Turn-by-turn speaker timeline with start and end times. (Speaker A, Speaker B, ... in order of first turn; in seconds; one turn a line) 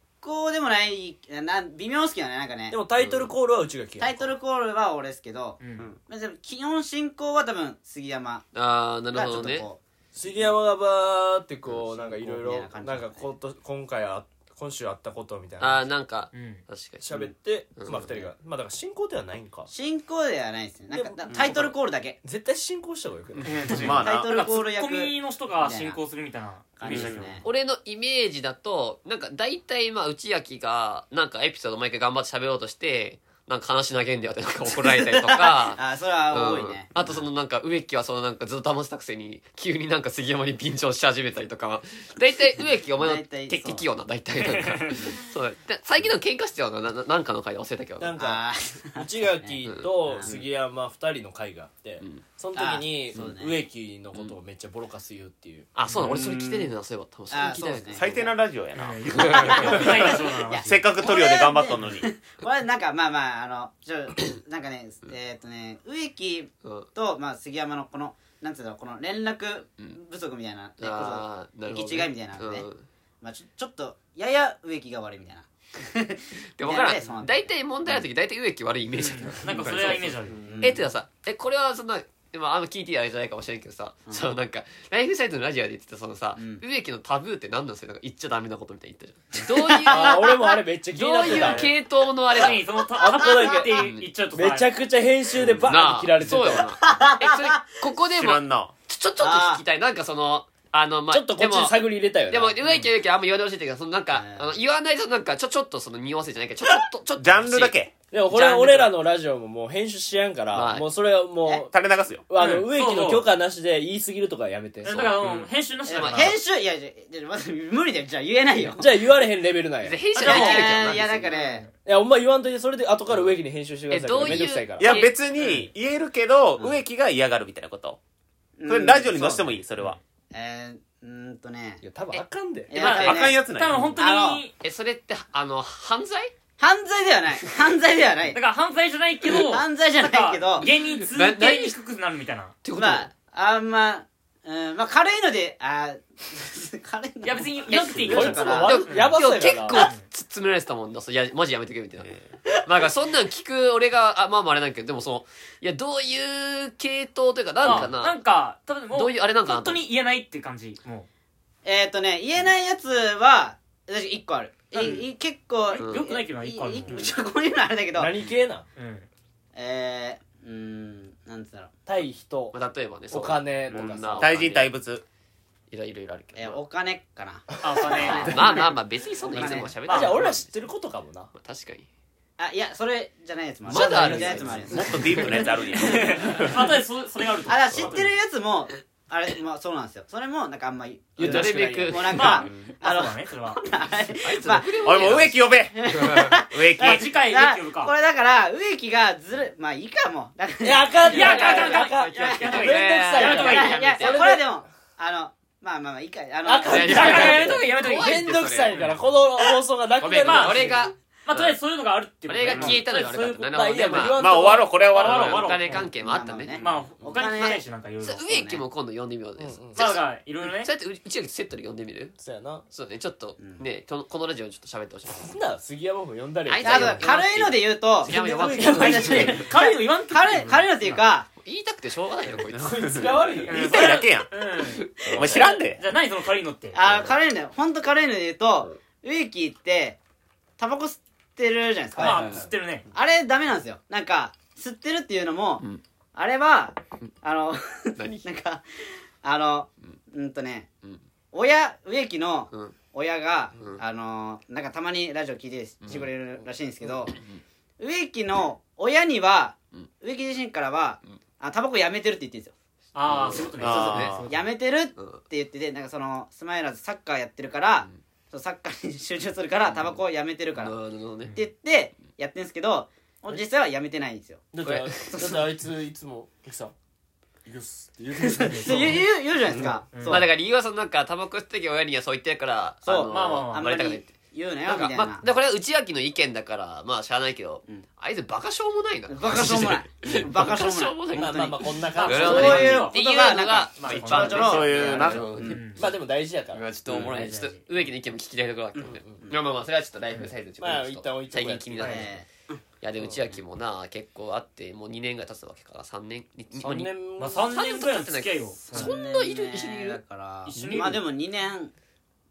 Speaker A: 0.2-2.8
Speaker B: 2.7-4.3
Speaker C: 3.0-3.3
Speaker A: 4.0-8.5
Speaker D: 5.6-5.9
Speaker C: 8.5-9.7
Speaker A: 9.1-9.8
Speaker B: 10.1-15.9
Speaker A: 11.8-13.3
Speaker C: 15.6-18.2
Speaker D: 16.3-16.6
Speaker B: 17.0-19.7
Speaker A: 19.7-22.2
Speaker B: 20.9-21.7
Speaker C: 21.3-21.6
Speaker B: 22.2-23.9
Speaker D: 23.4-27.4
Speaker E: 23.7-24.3
Speaker A: 24.0-26.0
Speaker A: 26.8-27.4
Speaker C: 26.9-48.1
Speaker A: 34.7-37.2
Speaker A: 43.0-43.8
Speaker D: 44.4-45.0
Speaker B: 48.0-55.7
Speaker A: 48.2-49.6
Speaker C: 49.6-50.3
Speaker A: 50.1-50.4
Speaker A: 52.5-53.6
Speaker C: 55.8-58.2
Speaker A: 56.0-56.7
Speaker A: 57.3-58.3
Speaker E: 57.9-62.1
Speaker D: 58.7-60.9
Speaker A: 59.1-72.7
Speaker C: 59.1-59.7
Speaker C: 66.6-66.9
Speaker C: 70.8-72.8
Speaker A: 73.2-77.4
Speaker C: 76.6-92.9
Speaker D: 78.9-80.5
Speaker A: 80.4-80.8
Speaker A: 86.4-86.6
Speaker A: 89.3-90.6
Speaker B: 89.8-91.7
Speaker D: 91.2-91.8
Speaker D: 92.3-94.7
Speaker B: 92.9-96.7
Speaker C: 93.5-94.1
Speaker C: 95.5-109.0
Speaker A: 96.6-97.8
Speaker E: 98.1-98.7
Speaker A: 99.2-99.6
Speaker B: 101.1-102.6
Speaker A: 104.1-104.5
Speaker E: 107.2-107.9
Speaker B: 108.1-111.7
Speaker C: 110.5-110.9
Speaker E: 111.7-112.2
Speaker B: 112.3-115.0
Speaker D: 112.3-113.3
Speaker D: 114.8-116.4
Speaker C: 114.8-116.4
Speaker A: 115.8-119.0
Speaker B: 118.7-120.0
Speaker C: 119.8-121.3
Speaker A: 120.2-121.6
Speaker D: 120.2-121.7
Speaker B: 121.8-124.9
Speaker C: 123.9-125.1
Speaker E: 124.8-128.0
Speaker A: 125.4-125.7
Speaker A: 128.6-129.4
Speaker E: 128.7-130.0
Speaker A: 130.3-131.8
Speaker B: 131.8-132.7
Speaker A: 132.7-133.4
Speaker C: 132.7-133.3
Speaker E: 132.8-134.0
Speaker D: 132.9-134.5
Speaker A: 134.0-134.4
Speaker C: 134.6-136.3
Speaker A: 136.6-138.4
Speaker D: 138.3-142.6
Speaker A: 139.4-140.7
Speaker C: 140.7-141.8
Speaker C: 142.6-143.1
Speaker A: 142.7-148.8
Speaker D: 147.2-149.2
Speaker C: 148.0-158.2
Speaker B: 148.0-149.9
Speaker D: 149.7-150.0
Speaker D: 157.6-161.1
Speaker C: 158.9-159.8
Speaker A: 161.6-168.2
Speaker D: 165.7-167.1
Speaker C: 165.8-166.1
Speaker B: 167.9-168.7
Speaker D: 168.8-169.1
Speaker A: 169.5-171.7
Speaker B: 171.8-172.6
Speaker C: 172.5-174.7
Speaker B: 173.1-174.4
Speaker E: 174.2-175.0
Speaker C: 175.7-176.6
Speaker A: 176.3-178.8
Speaker D: 177.6-178.4
Speaker B: 177.6-178.5
Speaker C: 178.0-180.6
Speaker A: 179.3-179.8
Speaker B: 179.4-181.3
Speaker D: 179.9-180.2
Speaker C: 181.3-181.9
Speaker A: 182.4-185.5
Speaker B: 183.7-185.0
Speaker C: 183.7-185.5
Speaker E: 184.7-186.7
Speaker D: 185.8-188.1
Speaker A: 187.4-201.7
Speaker B: 191.2-192.1
Speaker C: 191.2-192.5
Speaker D: 192.1-193.6
Speaker C: 194.2-196.4
Speaker E: 194.8-197.1
Speaker D: 196.8-197.9
Speaker B: 200.6-204.6
Speaker D: 201.1-204.0
Speaker C: 201.1-204.3
Speaker A: 202.5-207.4
Speaker B: 206.4-210.8
Speaker C: 206.7-208.8
Speaker D: 206.7-209.0
Speaker C: 210.0-211.6
Speaker D: 210.2-214.1
Speaker C: 212.2-214.3
Speaker B: 212.5-212.8
Speaker B: 213.5-214.7
Speaker E: 214.2-215.6
Speaker D: 214.8-215.9
Speaker C: 214.9-216.8
Speaker A: 215.9-217.7
Speaker D: 216.6-218.2
Speaker C: 217.4-222.2
Speaker A: 218.2-218.6
Speaker B: 219.4-220.0
Speaker D: 219.7-220.7
Speaker B: 222.2-222.6
Speaker C: 222.7-225.3
Speaker A: 223.4-223.6
Speaker B: 225.1-227.0
Speaker C: 226.5-229.4
Speaker A: 226.6-231.3
Speaker B: 228.1-229.4
Speaker D: 228.4-230.9
Speaker C: 231.3-233.1
Speaker E: 232.5-234.3
Speaker B: 232.6-233.9
Speaker D: 233.5-236.8
Speaker C: 234.6-235.4
Speaker E: 235.1-235.8
Speaker A: 236.7-240.0
Speaker A: 240.6-245.6
Speaker D: 242.0-242.9
Speaker B: 242.1-242.4
Speaker A: 246.1-248.6
Speaker C: 248.0-248.3
Speaker A: 249.2-250.7
Speaker A: 251.3-257.2
Speaker C: 253.6-253.8
Speaker C: 255.8-256.1
Speaker C: 257.1-257.4
Speaker A: 257.8-262.5
Speaker D: 262.9-264.4
Speaker C: 263.0-264.2
Speaker E: 263.6-264.3
Speaker A: 264.2-270.8
Speaker C: 264.9-265.2
Speaker C: 269.7-270.0
Speaker C: 270.5-271.4
Speaker A: 271.3-274.4
Speaker B: 274.5-276.7
Speaker C: 274.6-275.1
Speaker A: 275.1-275.5
Speaker B: 277.4-279.0
Speaker A: 278.2-280.3
Speaker D: 278.4-278.9
Speaker D: 279.9-280.2
Speaker C: 280.1-284.1
Speaker A: 282.9-285.3
Speaker D: 283.1-283.6
Speaker C: 284.6-295.7
Speaker A: 289.1-295.6
Speaker B: 291.1-292.9
Speaker D: 291.9-293.0
Speaker D: 293.8-295.9
Speaker E: 294.3-295.4
Speaker B: 295.8-296.6
Speaker C: 296.5-302.2
Speaker D: 296.9-297.6
Speaker A: 298.8-299.4
Speaker B: 298.8-299.3
Speaker B: 300.6-302.1
Speaker A: 301.8-302.6
Speaker C: 302.8-310.0
Speaker B: 306.6-307.5
Speaker D: 306.6-308.9
Speaker A: 308.6-311.7
Speaker D: 310.4-311.0
Speaker C: 310.5-311.0